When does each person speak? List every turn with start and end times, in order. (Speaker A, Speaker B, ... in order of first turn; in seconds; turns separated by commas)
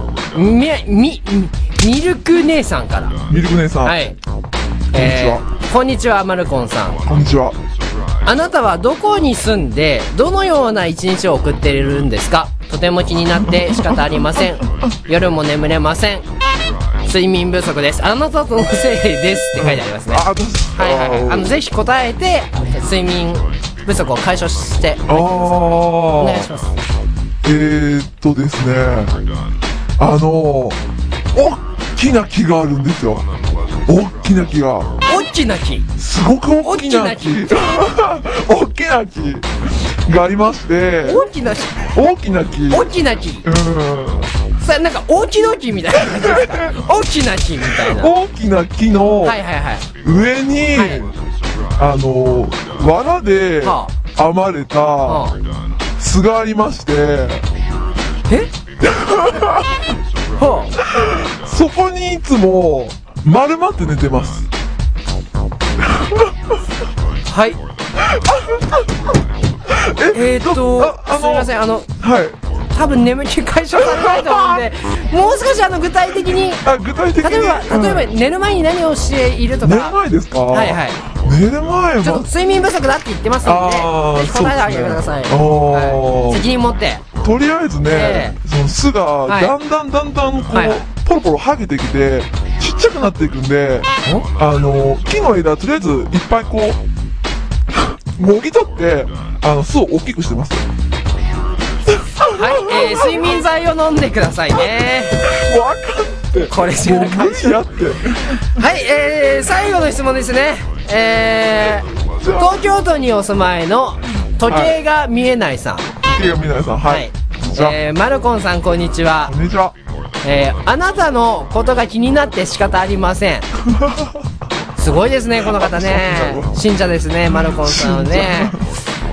Speaker A: 0.3-3.2, Speaker B: 3.3-4.0, Speaker A: 3.8-4.2, Speaker A: 4.9-7.0, Speaker B: 4.9-5.4, Speaker B: 7.0-7.6, Speaker A: 8.2-16.2, Speaker A: 17.0-26.7, Speaker B: 19.6-21.5, Speaker B: 25.1-26.5, Speaker B: 27.4-29.1, Speaker B: 30.0-30.8, Speaker B: 31.3-33.3, Speaker B: 33.9-34.9, Speaker A: 35.0-35.9, Speaker B: 36.0-41.2, Speaker A: 36.6-37.5, Speaker A: 41.0-42.0, Speaker B: 41.9-42.9, Speaker A: 42.7-43.5, Speaker B: 43.4-44.3, Speaker A: 44.6-48.1, Speaker B: 46.1-46.7, Speaker B: 47.7-49.4, Speaker A: 49.2-49.9, Speaker B: 50.0-51.2, Speaker A: 50.7-51.0, Speaker B: 51.8-55.3, Speaker A: 53.6-53.9, Speaker A: 55.0-55.4, Speaker B: 56.0-57.5, Speaker B: 58.8-59.8, Speaker A: 60.4-60.7, Speaker B: 60.8-64.5, Speaker B: 66.0-66.3, Speaker A: 67.2-67.6, Speaker B: 68.0-68.8, Speaker B: 69.7-72.4, Speaker A: 70.1-71.9, Speaker A: 72.7-76.6, Speaker B: 73.8-74.6, Speaker B: 76.6-78.1, Speaker A: 77.2-80.0, Speaker B: 79.6-82.3, Speaker A: 80.5-81.0, Speaker A: 82.0-87.0, Speaker B: 83.4-86.4, Speaker B: 87.2-96.8, Speaker A: 87.9-88.4, Speaker A: 89.2-89.5, Speaker A: 90.5-90.8, Speaker B: 98.1-100.6, Speaker B: 101.9-103.3, Speaker A: 102.3-105.2, Speaker B: 105.2-108.4, Speaker A: 106.5-107.6, Speaker A: 108.5-115.9, Speaker B: 112.2-112.6, Speaker B: 114.5-114.8, Speaker B: 116.0-117.8, Speaker A: 116.8-119.3, Speaker B: 119.2-119.7, Speaker A: 120.2-123.5, Speaker B: 123.7-124.1, Speaker A: 124.8-128.5, Speaker B: 125.4-126.5, Speaker B: 127.3-128.6